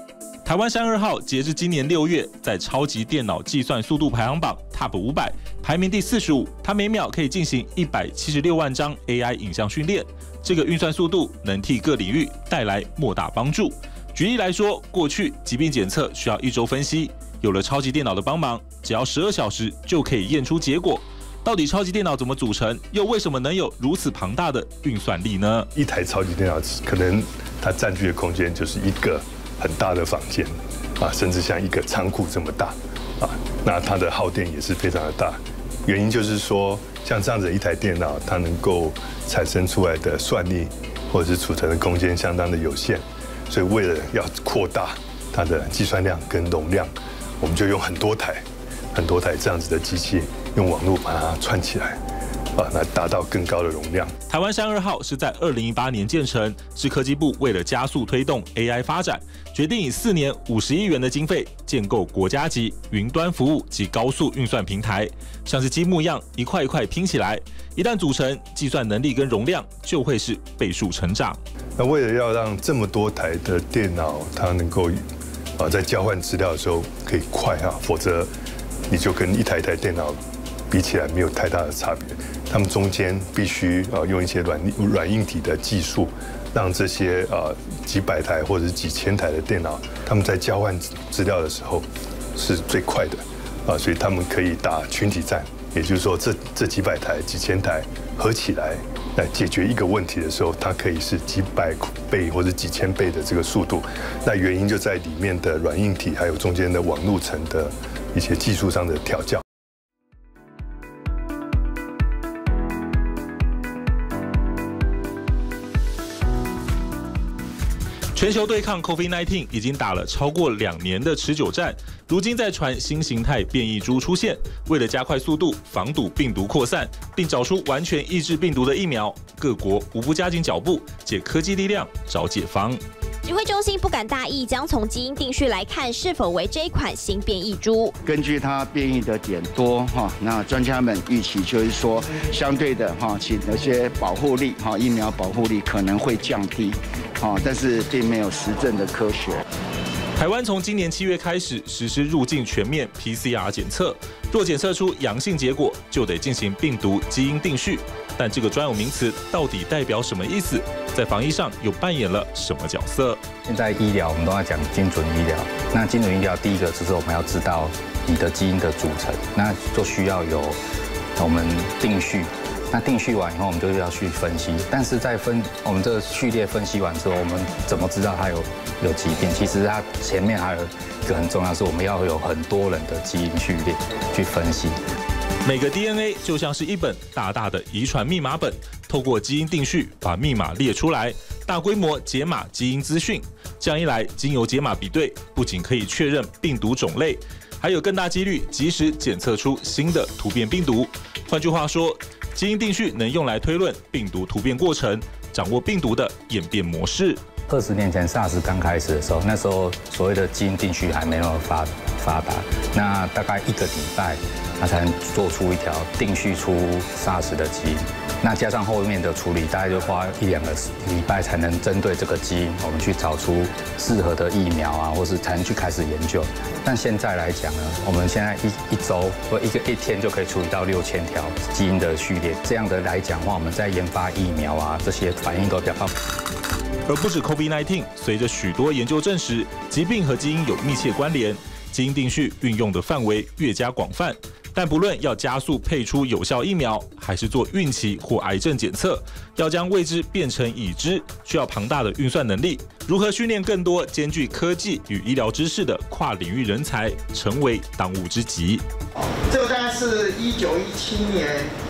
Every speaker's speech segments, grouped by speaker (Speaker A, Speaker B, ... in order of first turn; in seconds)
Speaker A: 0.4-25.7, 54.3-71.4, 118.1-132.8, 150.2-163.2, 185.4-207.2, 236.9-258.6
Speaker B: 25.7-52.0, 52.5-54.1, 71.8-75.0, 75.6-78.3, 78.9-80.2, 80.7-109.4
Speaker C: 133.2-137.9
Speaker D: 138.0-149.4
Speaker E: 163.4-170.6, 171.2-184.8, 207.5-235.9
Speaker F: 259.3-261.5